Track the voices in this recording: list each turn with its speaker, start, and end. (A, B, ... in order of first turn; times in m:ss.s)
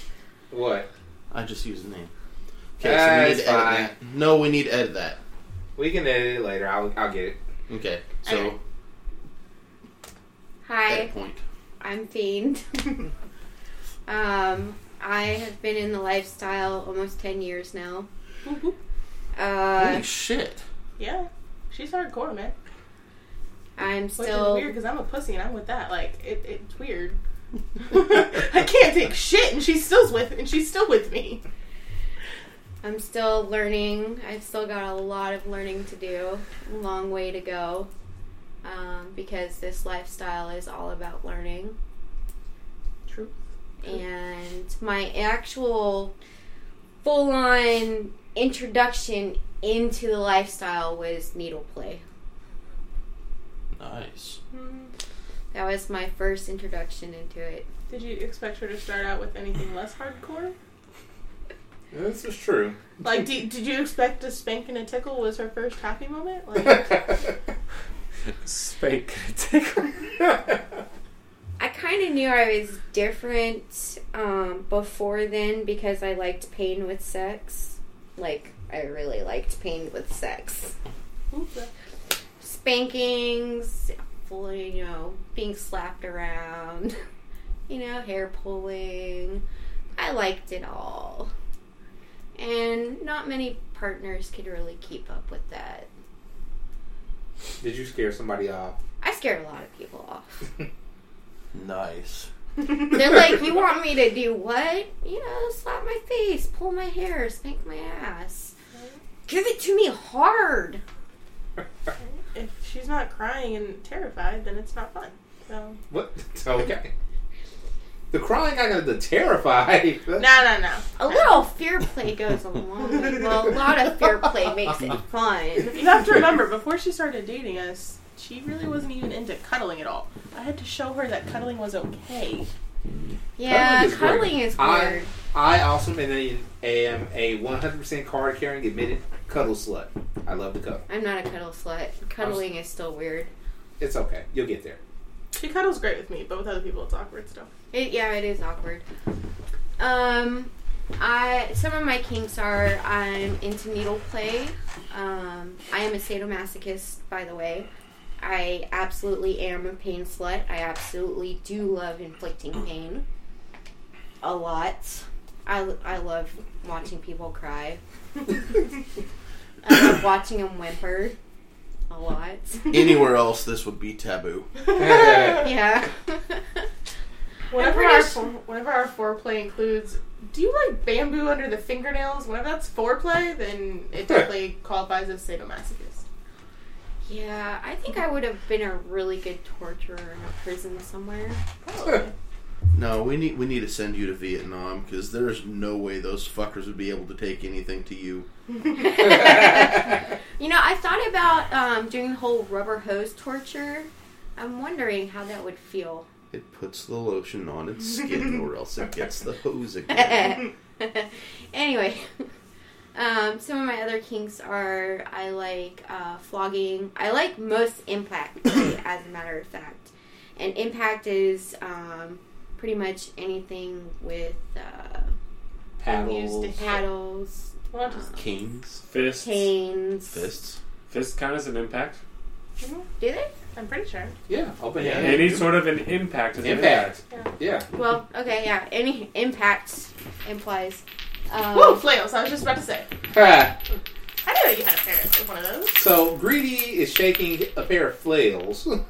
0:00.5-0:00.9 A
0:01.3-0:02.1 B
0:02.8-0:05.2 B
0:02.8-0:03.9 A
0:05.8-0:07.4 A
0:07.7-0:08.6 B
0:08.3-0:08.5 C
0:10.6-0:11.1 D
0:10.9-0:11.4 B
0:11.8-0:13.1 D
0:14.1-0:18.1 D
0:18.4-0:18.8 C
0:19.4-0:20.0 D
0:19.8-0:20.6 B
0:21.0-0:22.6 C
0:23.8-0:24.7 D
0:24.2-0:27.2 C
0:27.8-0:31.4 C
0:32.8-0:37.9 D
0:38.6-0:41.8 D
0:43.8-0:46.1 D
0:47.0-0:52.0 D
0:53.8-0:54.4 B
0:54.5-0:54.9 C
0:55.5-0:57.7 D
0:57.9-1:00.6 C
1:01.9-1:02.8 A
1:03.0-1:07.2 C
1:08.4-1:10.0 E
1:11.6-1:20.7 D
1:21.3-1:21.7 C
1:22.4-1:27.0 D
1:27.7-1:29.4 D
1:30.0-1:31.3 D
1:32.4-1:35.9 D
1:37.6-1:38.8 A
1:39.0-1:40.3 D
1:41.5-1:42.3 B
1:42.7-1:48.5 D
1:49.3-1:50.8 D
1:52.0-1:55.8 C
1:55.9-1:56.9 A
1:58.1-2:00.4 A
2:00.2-2:01.4 C
2:01.0-2:05.8 D
2:05.7-2:12.5 C
2:13.4-2:15.1 D
2:13.4-2:20.8 A
2:20.9-2:23.3 D
2:22.2-2:22.4 A
2:23.8-2:24.8 A
2:25.3-2:27.5 C
2:27.7-2:28.8 D
2:29.8-2:37.7 D
2:38.2-2:43.0 D
2:44.2-2:47.8 D
2:49.6-2:51.2 D
2:51.9-2:52.8 D
2:52.7-2:54.5 B
2:54.8-2:55.5 A
2:55.0-2:55.2 C
2:55.2-2:56.6 D
2:57.5-3:06.0 C
2:57.5-2:58.2 D
3:07.0-3:11.4 D
3:11.6-3:12.1 C
3:12.7-3:18.3 B
3:18.7-3:26.1 D
3:26.3-3:30.4 B
3:29.9-3:32.1 D
3:33.0-3:45.1 D
3:45.8-3:46.6 A
3:45.9-3:46.9 C
3:46.6-3:48.1 D
3:47.7-3:48.1 C
3:48.1-3:48.8 B
3:48.9-3:49.5 E
3:49.1-3:50.2 D
3:50.1-3:50.6 B
3:50.9-3:52.0 E
3:52.6-3:52.9 C
3:53.0-3:53.3 D
3:53.5-3:54.1 C
3:54.3-3:55.5 A
3:54.8-3:55.5 B
3:55.0-3:57.0 E
3:56.4-3:57.7 A
3:57.7-4:01.8 D
4:01.5-4:02.9 C
4:03.1-4:03.6 A
4:04.2-4:05.8 C
4:05.8-4:08.8 A